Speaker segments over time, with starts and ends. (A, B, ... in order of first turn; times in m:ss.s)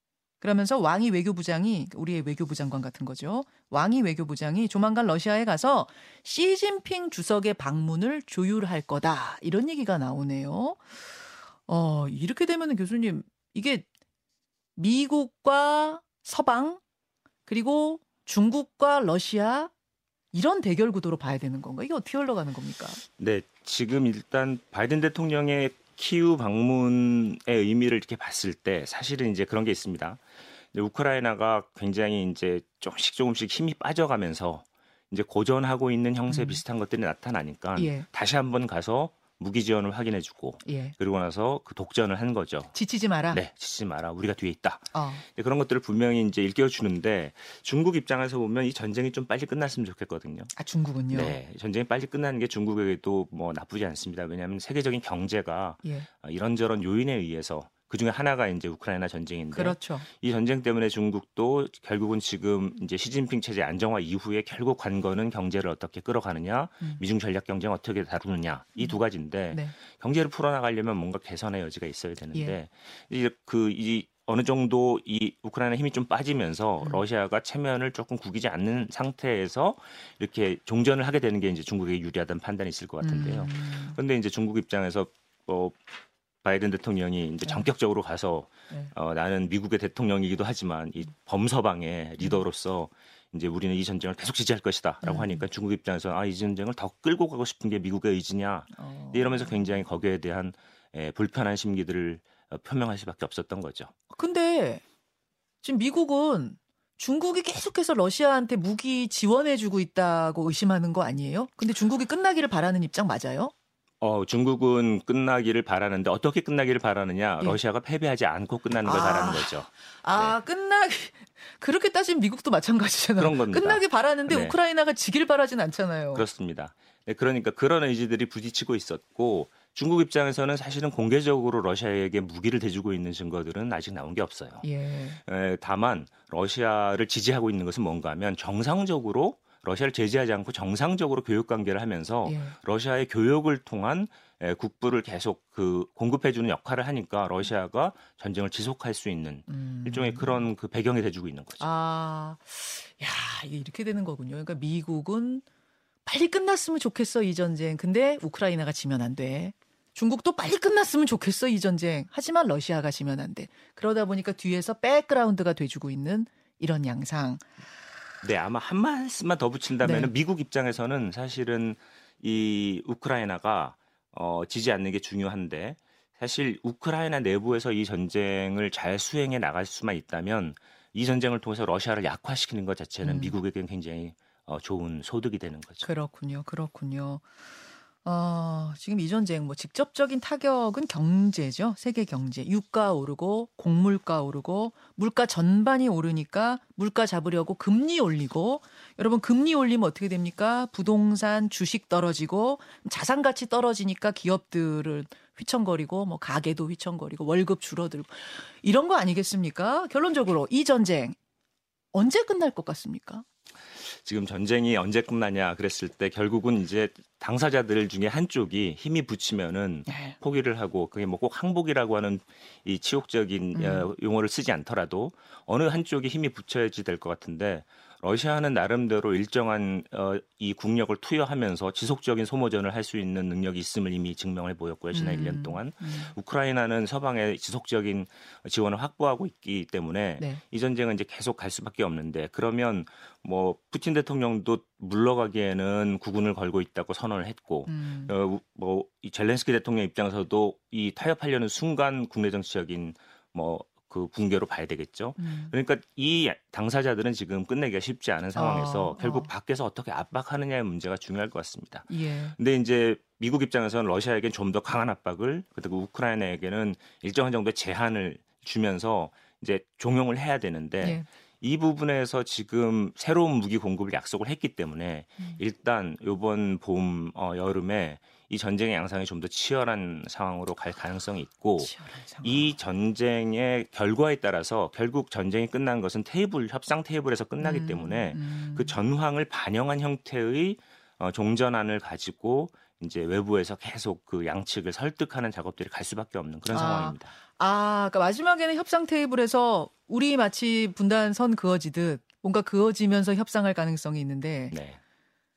0:00.4-0:10.8 A
0:11.7-0:13.9 A
0:14.8-0:16.8 A
0:17.5-0:19.7 A
0:20.3-0:23.0 A
0:23.2-0:30.2 B
0:30.7-0:42.7 B
0:36.3-0:36.6 A
0:37.8-0:38.1 A
0:40.6-0:41.0 A
0:42.7-0:43.4 A
0:43.3-0:50.5 B
0:44.9-0:45.2 A
0:50.6-0:51.4 A
0:51.1-1:25.8 B
0:59.5-1:00.1 A
1:23.0-1:24.0 A
1:26.4-1:43.9 B
1:32.2-1:32.4 A
1:35.0-1:35.5 A
1:38.8-1:39.8 A
1:44.1-1:44.8 A
1:45.6-1:53.5 A
1:54.0-2:00.4 B
1:58.8-2:06.3 A
2:03.2-2:04.6 B
2:06.1-2:14.7 B
2:14.6-2:15.2 A
2:15.2-2:31.7 B
2:22.2-2:22.6 A
2:29.5-2:30.5 A
2:31.6-2:35.4 A
2:36.1-2:47.4 A
2:48.2-3:05.9 B
2:49.8-2:50.1 A
3:03.0-3:03.4 A
3:05.8-3:07.2 A
3:08.0-3:31.2 A
3:31.9-3:33.2 A
3:33.9-4:57.2 B
3:39.9-3:40.2 A
3:43.5-3:43.9 A
3:54.9-3:56.1 A
4:07.7-4:08.2 A
4:15.2-4:15.5 A
4:18.4-4:19.3 A
4:21.9-4:22.4 A
4:30.8-4:31.1 A
4:41.6-4:42.5 A
4:47.4-4:48.8 A
4:56.5-5:04.6 A
5:04.5-5:04.8 B